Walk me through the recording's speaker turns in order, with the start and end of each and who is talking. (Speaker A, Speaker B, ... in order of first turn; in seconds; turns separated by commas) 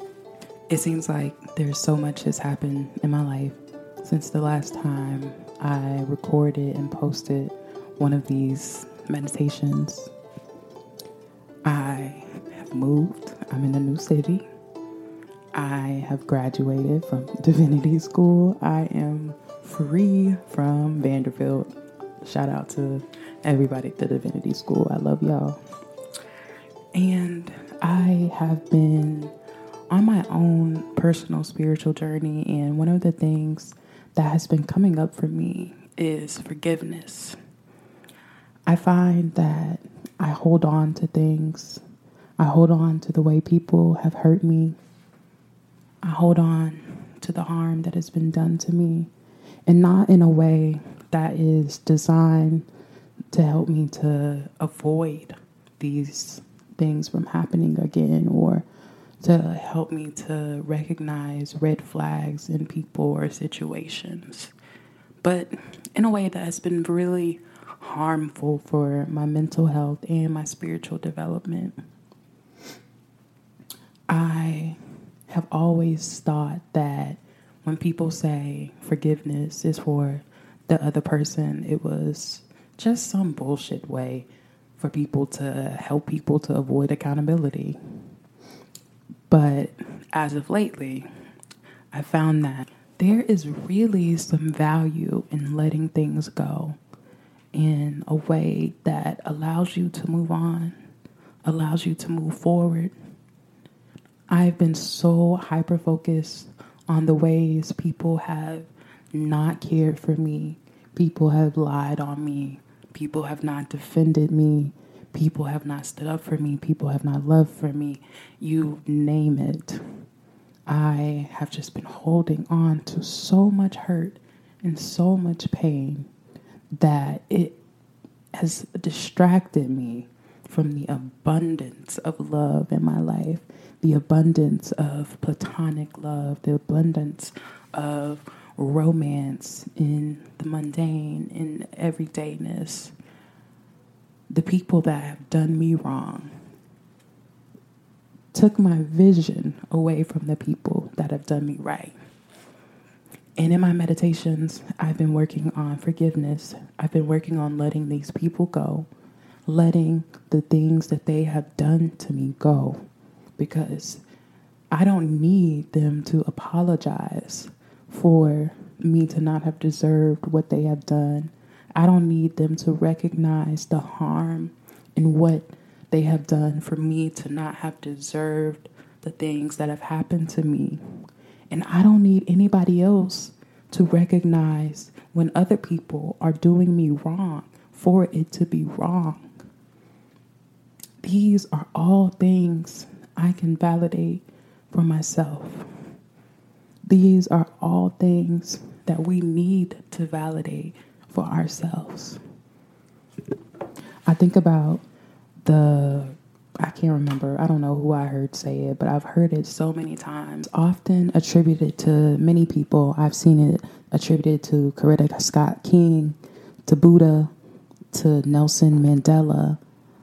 Speaker A: 0.7-10.1, Speaker A: 11.6-14.4, Speaker A: 15.5-25.6, Speaker A: 26.9-29.3, Speaker A: 29.9-37.4, Speaker A: 38.6-41.8, Speaker A: 42.4-44.8, Speaker A: 46.0-49.1, Speaker A: 49.7-52.7, Speaker A: 53.3-58.6, Speaker A: 59.2-64.5, Speaker A: 65.2-71.8, Speaker A: 74.1-87.8, Speaker A: 89.3-91.1, Speaker A: 91.9-96.8, Speaker A: 97.5-100.8, Speaker A: 101.4-102.9, Speaker A: 104.3-120.0, Speaker A: 120.7-126.1, Speaker A: 126.8-127.6, Speaker A: 128.3-142.9, Speaker A: 144.3-146.3, Speaker A: 148.3-151.9, Speaker A: 153.4-158.9, Speaker A: 159.4-162.8, Speaker A: 163.4-164.0, Speaker A: 164.7-180.8, Speaker A: 181.5-189.3, Speaker A: 191.0-195.7, Speaker A: 196.8-202.2, Speaker A: 204.1-204.8, Speaker A: 205.4-217.3, Speaker A: 217.9-219.6